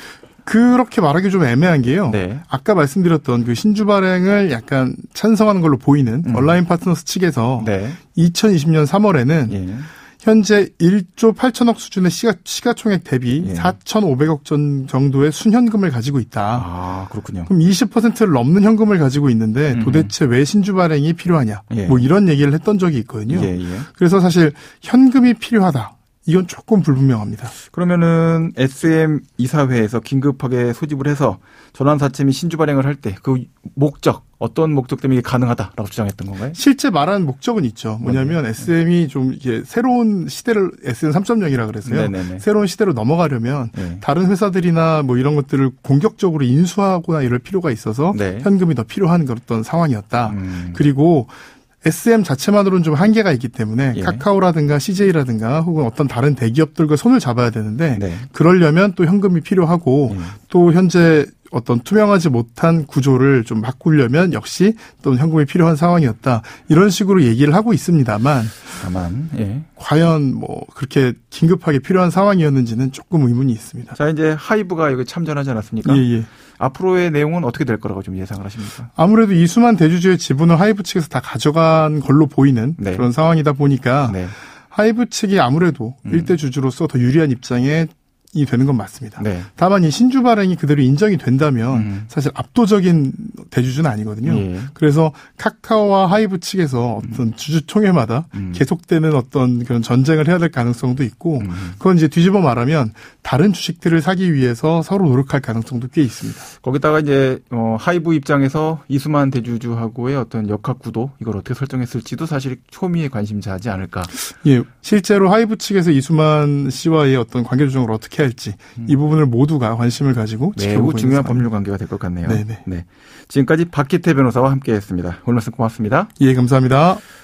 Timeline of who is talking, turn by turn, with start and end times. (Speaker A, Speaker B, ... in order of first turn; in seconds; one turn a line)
Speaker A: 0.4-9.6
Speaker B: 2.1-2.4
Speaker B: 6.2-6.6
Speaker B: 7.6-8.0
Speaker B: 9.5-9.9
Speaker A: 10.2-16.7
Speaker B: 13.4-13.8
Speaker B: 16.5-17.5
Speaker A: 17.5-27.5
Speaker B: 19.7-20.1
Speaker B: 21.7-22.1
Speaker B: 23.3-23.9
Speaker B: 27.5-36.6
Speaker A: 36.5-68.6
Speaker B: 38.0-38.7
Speaker B: 41.8-42.4
Speaker B: 43.7-44.0
Speaker B: 48.1-48.5
Speaker B: 50.3-50.8
Speaker B: 53.9-54.2
Speaker B: 57.9-58.3
Speaker B: 60.1-60.4
Speaker B: 68.7-69.7
Speaker A: 69.8-73.9
Speaker B: 73.9-78.9
Speaker A: 75.8-76.3
Speaker A: 79.0-106.5
Speaker B: 82.8-83.0
Speaker B: 84.0-84.3
Speaker B: 86.0-86.4
Speaker B: 89.2-89.5
Speaker B: 91.7-92.1
Speaker B: 94.2-94.7
Speaker B: 98.3-98.6
Speaker B: 101.4-101.8
Speaker B: 106.6-114.1
Speaker A: 114.1-121.5
Speaker B: 120.5-126.1
Speaker A: 122.2-122.6
Speaker A: 126.2-127.0